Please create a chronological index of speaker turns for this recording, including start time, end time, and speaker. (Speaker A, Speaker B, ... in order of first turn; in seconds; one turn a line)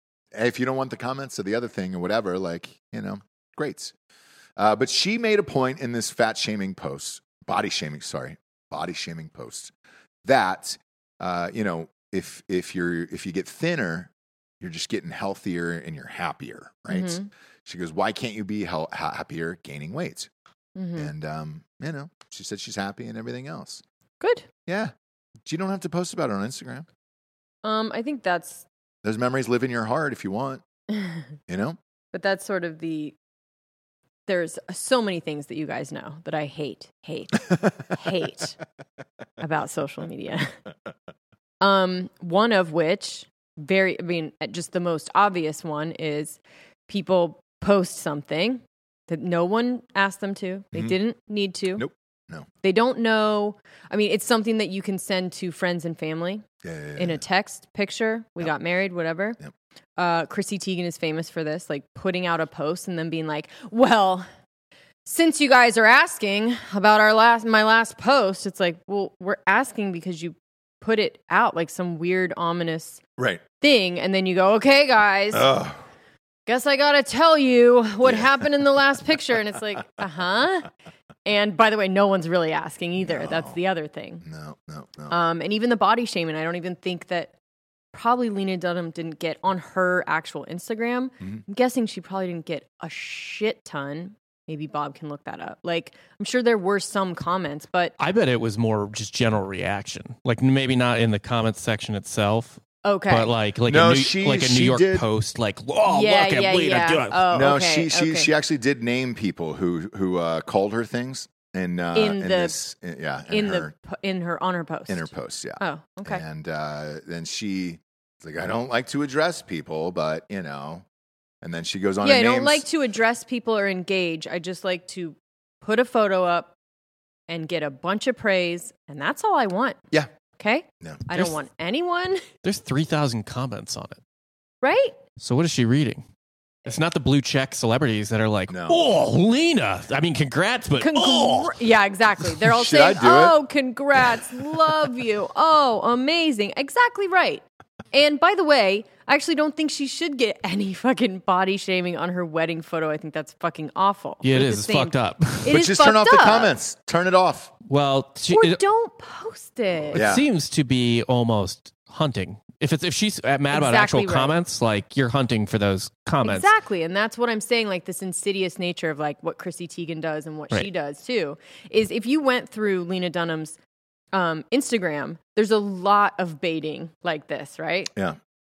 Speaker A: 0.3-3.9
Speaker A: 4.6-9.7
Speaker A: 10.2-14.1
Speaker A: 14.6-20.3
Speaker B: 16.9-17.3
Speaker B: 20.7-21.1
Speaker A: 20.9-23.8
Speaker B: 24.2-24.5
Speaker A: 24.7-24.9
Speaker A: 25.4-26.9
Speaker B: 27.6-28.6
Speaker A: 29.0-30.6
Speaker B: 30.9-31.2
Speaker A: 31.5-31.8
Speaker B: 32.1-33.1
Speaker B: 34.3-38.6
Speaker B: 39.4-40.5
Speaker B: 41.6-51.8
Speaker A: 51.8-52.5
Speaker B: 52.6-56.4
Speaker A: 56.6-57.2
Speaker B: 57.0-59.4
Speaker B: 60.0-64.3
Speaker B: 65.0-73.0
Speaker A: 73.2-73.4
Speaker B: 73.6-75.5
Speaker A: 75.3-75.8
Speaker B: 76.5-80.7
Speaker A: 78.0-78.3
Speaker B: 81.2-84.2
Speaker A: 83.0-83.6
Speaker A: 84.2-85.2
Speaker B: 85.1-87.3
Speaker B: 87.9-97.9
Speaker C: 98.0-107.2
Speaker B: 102.8-103.3
Speaker A: 103.7-105.0
Speaker B: 105.9-108.3
Speaker A: 107.3-113.7
Speaker B: 111.9-112.5
Speaker B: 113.3-116.2
Speaker A: 114.9-120.8
Speaker A: 121.4-122.7
Speaker B: 122.0-126.5
Speaker B: 127.3-129.8
Speaker B: 130.4-132.2
Speaker C: 132.4-134.0
Speaker B: 134.6-135.0
Speaker C: 135.2-136.0
Speaker C: 136.6-141.6
Speaker A: 138.5-138.8
Speaker B: 140.8-156.5
Speaker A: 142.5-143.4
Speaker C: 154.2-155.5
Speaker A: 155.5-157.5
Speaker C: 157.7-158.6
Speaker B: 158.3-160.0
Speaker C: 159.9-166.5
Speaker A: 159.9-160.2
Speaker B: 163.5-164.3
Speaker B: 166.2-173.6
Speaker B: 174.1-177.9